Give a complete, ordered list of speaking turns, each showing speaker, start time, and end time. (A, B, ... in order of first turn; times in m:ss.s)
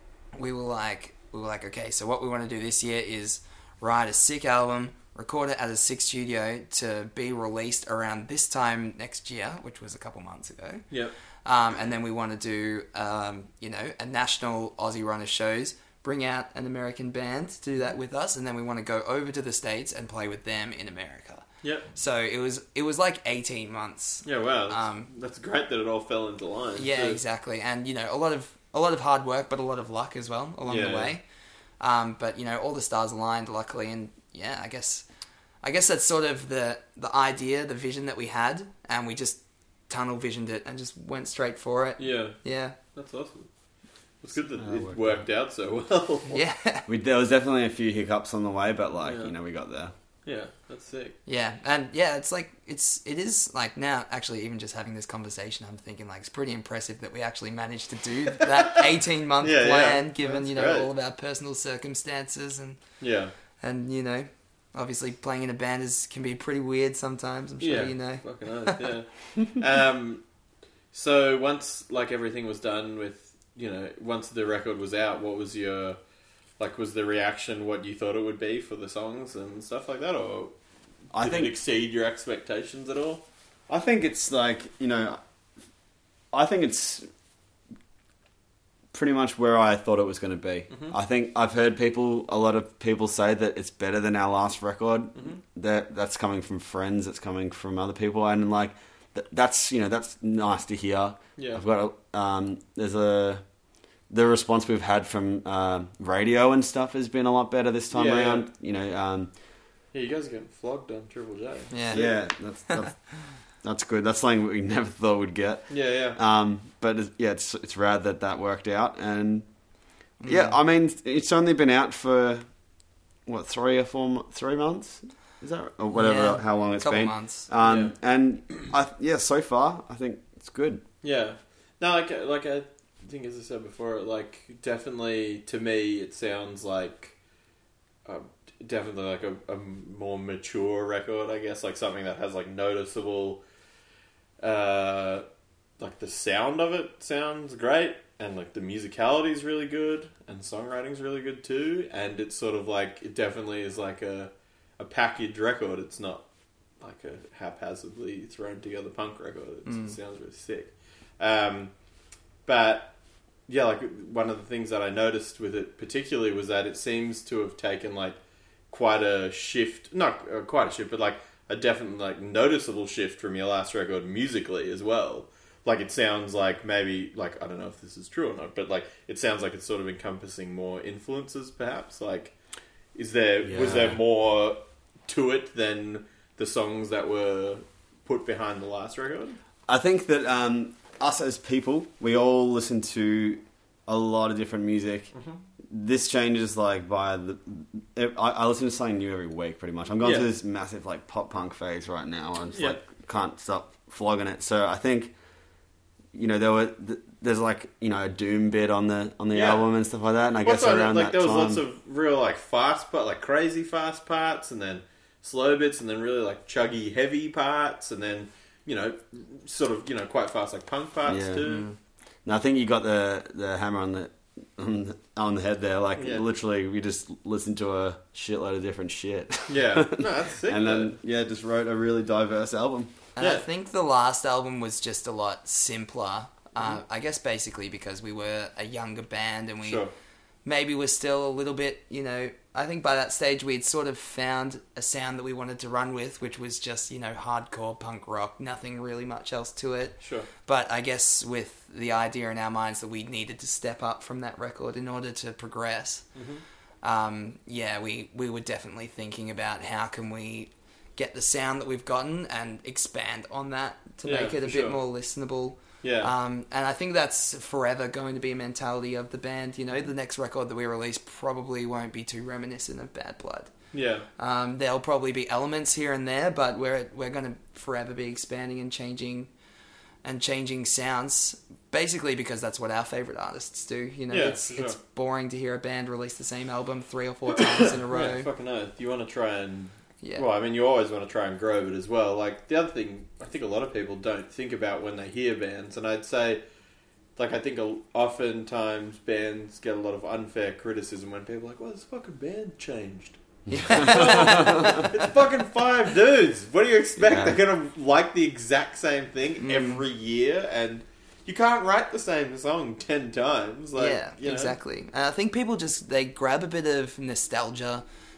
0:00.3-0:25.1 A
0:21.6-0:21.9 B
0:24.2-0:27.2 B
0:26.8-0:31.2 A
0:30.6-0:31.2 B
0:31.8-0:35.0 A
0:35.6-0:42.8 A
0:42.0-0:43.5 B
0:44.2-0:46.4 B
0:44.6-0:45.2 C
0:46.3-0:46.8 A
0:46.8-0:49.9 C
0:49.0-0:49.3 B
0:50.2-0:51.2 B
0:51.2-1:03.0 A
0:59.4-1:00.9 B
1:03.0-1:03.3 B
1:03.6-1:09.0 A
1:07.6-1:10.2 B
1:10.9-1:16.0 B
1:16.6-1:20.6 B
1:21.1-1:21.5 C
1:21.2-1:23.2 B
1:23.7-1:25.2 C
1:26.3-1:27.1 C
1:28.9-1:43.5 C
1:41.4-1:41.6 B
1:44.1-1:49.3 C
1:47.9-1:48.5 B
1:49.9-1:52.2 B
1:51.7-1:52.0 A
1:51.9-1:59.5 C
1:55.7-1:56.2 B
2:00.1-2:02.6 C
2:00.2-2:00.6 A
2:03.2-2:10.8 C
2:06.0-2:07.5 A
2:07.6-2:08.0 B
2:11.0-2:17.2 B
2:18.0-2:23.4 B
2:24.4-2:25.2 B
2:25.8-2:36.3 B
2:36.8-2:41.7 B
2:39.7-2:40.0 A
2:42.4-2:43.0 B
2:43.5-2:48.2 B
2:48.7-3:02.4 B
3:02.9-3:09.4 B
3:03.4-3:04.0 C
3:09.7-3:15.1 C
3:15.1-3:15.4 B
3:15.7-3:25.2 C
3:20.0-3:20.3 B
3:22.5-3:22.8 B
3:26.1-3:31.6 C
3:29.3-3:29.6 B
3:30.4-3:41.7 B
3:41.1-3:41.6 C
3:41.4-3:41.7 A
3:42.2-3:53.0 C
3:46.0-3:46.2 B
3:49.5-3:51.0 B
3:53.2-3:59.8 A
3:53.2-3:53.4 B
3:59.6-3:59.9 B
4:00.4-4:16.1 A
4:10.0-4:10.3 B
4:16.1-4:16.4 B
4:16.8-4:33.5 A
4:24.0-4:24.8 B
4:25.8-4:26.1 B
4:33.7-4:34.0 B
4:34.2-4:39.3 A
4:40.0-4:48.3 A
4:44.1-4:44.8 B
4:47.4-4:56.4 B
4:50.0-4:50.3 A
4:57.2-5:14.6 B
5:03.5-5:04.8 C
5:03.5-5:05.0 A
5:07.0-5:07.4 C
5:09.4-5:09.8 A
5:13.8-5:17.8 A